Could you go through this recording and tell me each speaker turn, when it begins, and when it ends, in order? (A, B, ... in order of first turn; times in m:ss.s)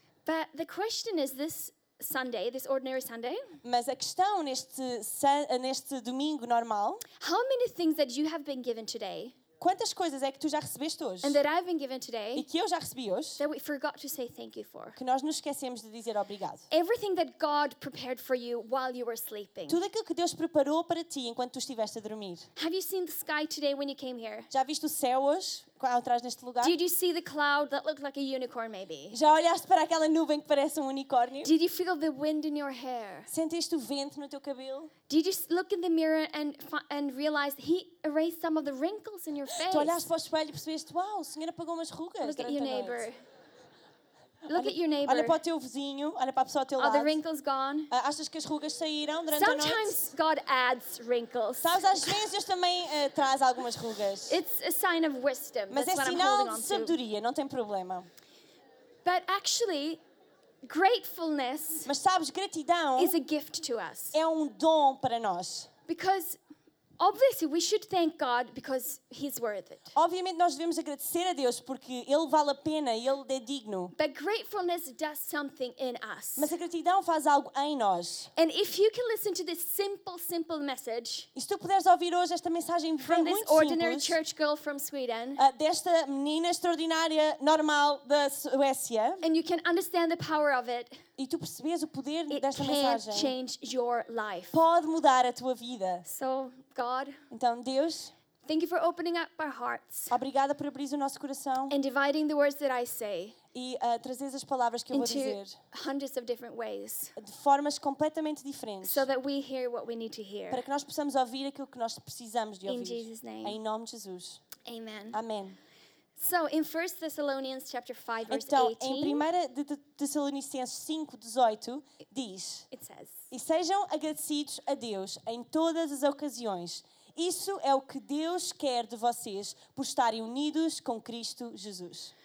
0:00.2-0:03.6 A
0:03.6-0:07.0 B
0:07.2-0:09.4 A
0:09.6-0:11.4 B
0:11.2-0:12.5 A
0:12.4-0:13.4 B
0:13.4-0:15.0 A
0:15.0-0:16.6 B
0:16.7-0:19.8 A
0:19.7-0:22.5 B
0:22.6-0:24.5 A
0:24.5-0:26.8 B
0:26.6-0:29.2 A
0:29.1-0:31.5 B
0:31.4-0:33.3 A
0:33.3-0:34.9 B
0:35.1-0:40.1 A
0:39.6-0:43.1 B
0:42.2-0:43.2 A
0:44.5-0:45.4 A
0:44.5-0:47.2 B
0:46.8-0:47.9 A
0:47.9-0:50.1 B
0:49.3-0:52.2 A
0:51.6-0:54.4 B
0:54.3-0:57.0 A
0:55.7-0:58.1 B
0:59.0-1:00.0 A
1:00.6-1:01.9 A
1:01.9-1:03.2 B
1:03.0-1:04.2 A
1:04.1-1:05.7 B
1:05.9-1:06.4 A
1:07.0-1:09.9 A
1:10.0-1:13.9 B
1:14.0-1:16.5 A
1:16.4-1:18.3 B
1:18.4-1:21.3 A
1:21.4-1:24.2 B
1:23.0-1:25.4 A
1:25.4-1:29.2 B
1:29.2-1:31.0 A
1:31.2-1:33.3 B
1:32.3-1:34.6 A
1:34.5-1:36.0 B
1:36.0-1:37.2 A
1:37.3-1:38.1 B
1:38.5-1:40.2 A
1:40.1-1:41.7 B
1:41.7-1:43.4 A
1:43.5-1:45.6 B
1:44.9-1:47.2 A
1:47.2-1:49.1 B
1:48.8-1:50.6 A
1:50.5-1:54.4 B
1:52.7-1:53.6 A
1:54.6-1:55.2 A
1:55.1-1:55.6 B
1:56.2-1:59.3 A
1:58.3-2:02.7 B
2:02.7-2:03.2 A
2:03.3-2:12.1 B